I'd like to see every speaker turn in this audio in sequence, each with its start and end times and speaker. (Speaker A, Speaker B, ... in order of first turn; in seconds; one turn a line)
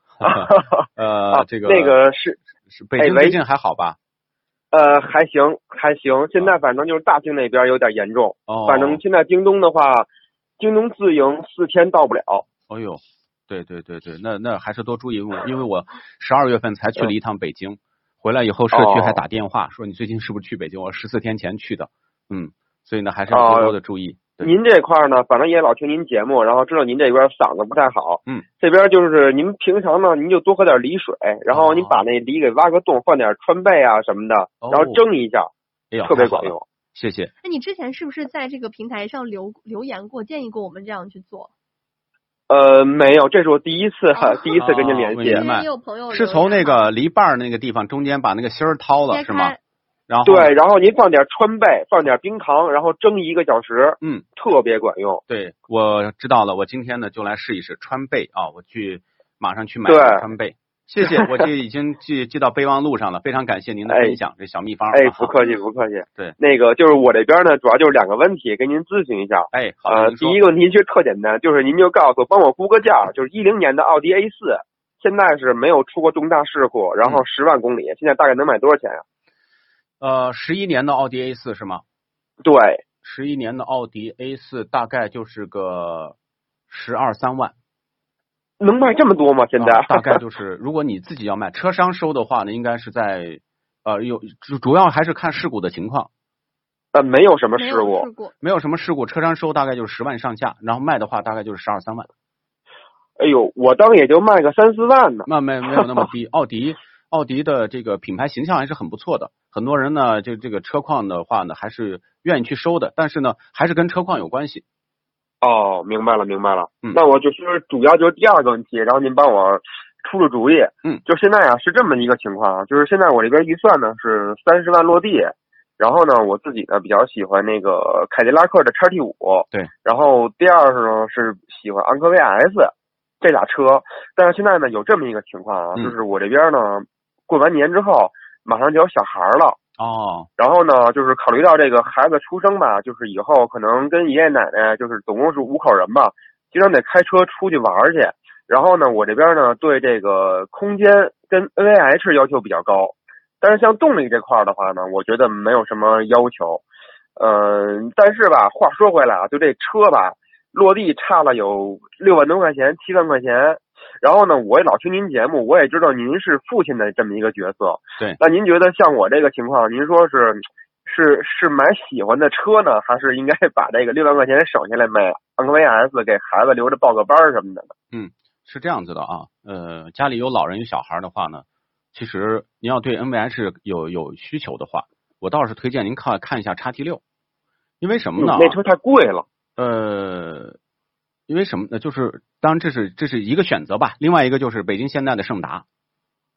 Speaker A: 0.2-2.0
Speaker B: 0.2-2.4
Speaker A: 2.7-4.0
Speaker B: 3.0-3.4
Speaker B: 4.7-10.1
Speaker A: 8.5-9.0
Speaker B: 10.6-12.4
Speaker A: 12.7-24.5
Speaker B: 18.7-19.2
Speaker B: 23.3-23.8
Speaker B: 24.4-35.5
Speaker A: 31.5-32.0
Speaker A: 34.6-35.0
Speaker A: 35.9-37.3
Speaker B: 36.0-36.6
Speaker C: 37.4-41.5
Speaker B: 42.5-45.4
Speaker C: 44.1-44.6
Speaker A: 44.6-49.5
Speaker C: 45.2-46.9
Speaker C: 49.1-49.6
Speaker A: 50.1-50.5
Speaker B: 50.2-55.2
Speaker A: 55.3-65.3
Speaker B: 59.9-60.3
Speaker B: 61.0-61.4
Speaker B: 63.9-64.2
Speaker B: 64.9-79.0
Speaker A: 69.5-70.4
Speaker A: 80.0-81.8
Speaker B: 82.4-82.8
Speaker A: 83.0-86.2
Speaker A: 86.7-87.5
Speaker B: 88.6-90.2
Speaker A: 89.6-96.1
Speaker B: 96.9-98.1
Speaker C: 97.6-98.3
Speaker A: 98.4-102.1
Speaker B: 103.2-106.1
Speaker A: 105.3-114.6
Speaker B: 115.4-139.6
Speaker A: 139.8-140.3
Speaker B: 140.4-156.6
Speaker B: 157.2-177.7
Speaker A: 177.9-187.0
Speaker A: 187.8-188.6
Speaker B: 188.2-189.3
Speaker A: 189.6-190.6
Speaker A: 191.3-195.7